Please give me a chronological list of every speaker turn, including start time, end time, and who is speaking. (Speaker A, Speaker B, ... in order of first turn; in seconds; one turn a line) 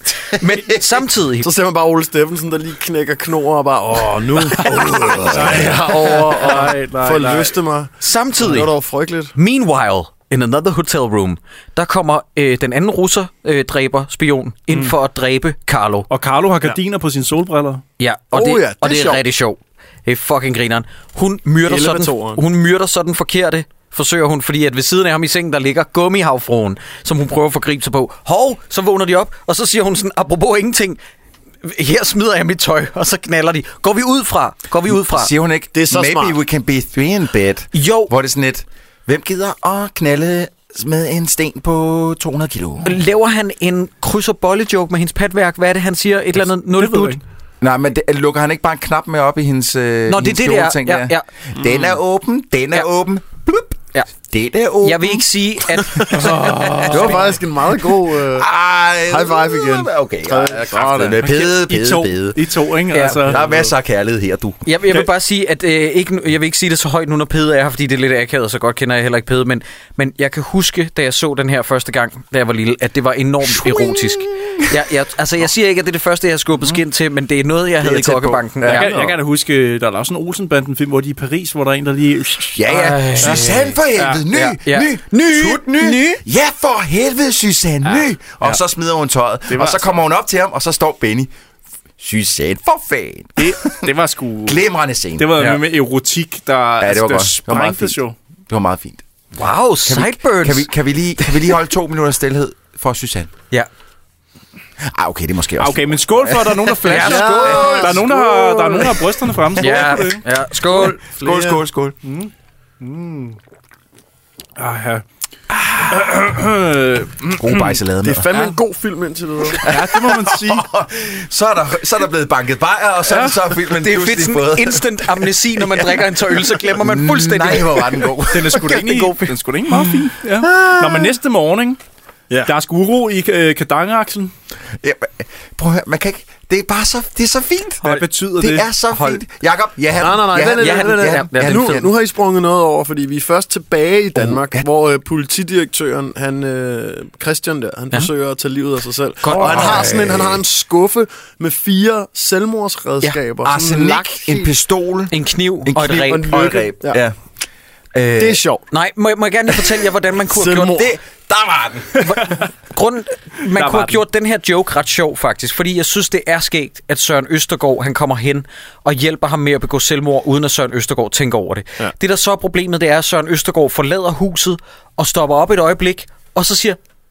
Speaker A: 0.3-1.0
Speaker B: 0.4-1.5
Speaker C: 1.4-9.3
Speaker A: 4.6-5.6
Speaker D: 5.3-7.6
Speaker B: 8.0-8.7
Speaker B: 9.3-16.1
Speaker D: 16.1-17.8
Speaker B: 18.0-31.0
Speaker C: 18.3-19.2
Speaker C: 21.6-22.4
Speaker B: 31.6-35.3
Speaker A: 34.9-42.9
Speaker C: 35.7-36.4
Speaker B: 37.7-38.1
Speaker B: 42.8-47.2
Speaker D: 46.6-47.2
Speaker A: 47.6-57.2
Speaker B: 50.1-51.2
Speaker C: 51.6-51.9
Speaker B: 54.8-57.0
Speaker D: 56.1-57.4
Speaker C: 56.9-58.5
Speaker A: 58.3-62.4
Speaker C: 59.0-61.2
Speaker D: 61.2-63.6
Speaker B: 62.9-63.2
Speaker A: 63.2-64.6
Speaker B: 64.6-78.9
Speaker A: 73.4-74.8
Speaker A: 77.8-79.0
Speaker D: 78.7-82.6
Speaker C: 78.9-79.1
Speaker A: 82.5-91.3
Speaker B: 82.7-83.8
Speaker D: 83.2-84.2
Speaker B: 84.3-86.2
Speaker D: 89.5-90.0
Speaker A: 92.0-93.9
Speaker D: 93.4-94.6
Speaker A: 94.4-95.3
Speaker D: 95.2-98.1
Speaker A: 96.8-98.0
Speaker A: 98.5-99.0
Speaker B: 99.3-100.7
Speaker A: 99.8-103.3
Speaker A: 104.8-107.0
Speaker D: 105.6-110.2
Speaker B: 106.8-107.9
Speaker C: 106.9-109.0
Speaker B: 109.6-111.0
Speaker A: 110.8-112.0
Speaker C: 110.8-111.6
Speaker D: 112.0-113.4
Speaker D: 114.6-117.8
Speaker A: 117.3-118.3
Speaker C: 118.0-119.6
Speaker A: 119.5-128.8
Speaker D: 119.6-120.7
Speaker D: 123.1-123.3
Speaker B: 123.8-129.3
Speaker D: 128.3-131.8
Speaker A: 130.4-130.9
Speaker D: 132.4-134.3
Speaker A: 134.8-141.9
Speaker D: 137.8-138.7
Speaker B: 138.9-139.2
Speaker C: 140.0-154.5
Speaker B: 140.3-141.7
Speaker A: 144.1-144.7
Speaker B: 149.2-150.3
Speaker A: 149.4-150.2
Speaker A: 153.4-157.2
Speaker B: 155.1-156.3
Speaker C: 155.9-157.0
Speaker A: 157.9-158.4
Speaker C: 158.2-158.6
Speaker B: 158.7-160.8
Speaker C: 160.2-160.9
Speaker A: 160.6-162.4
Speaker B: 162.0-176.8
Speaker D: 163.5-164.0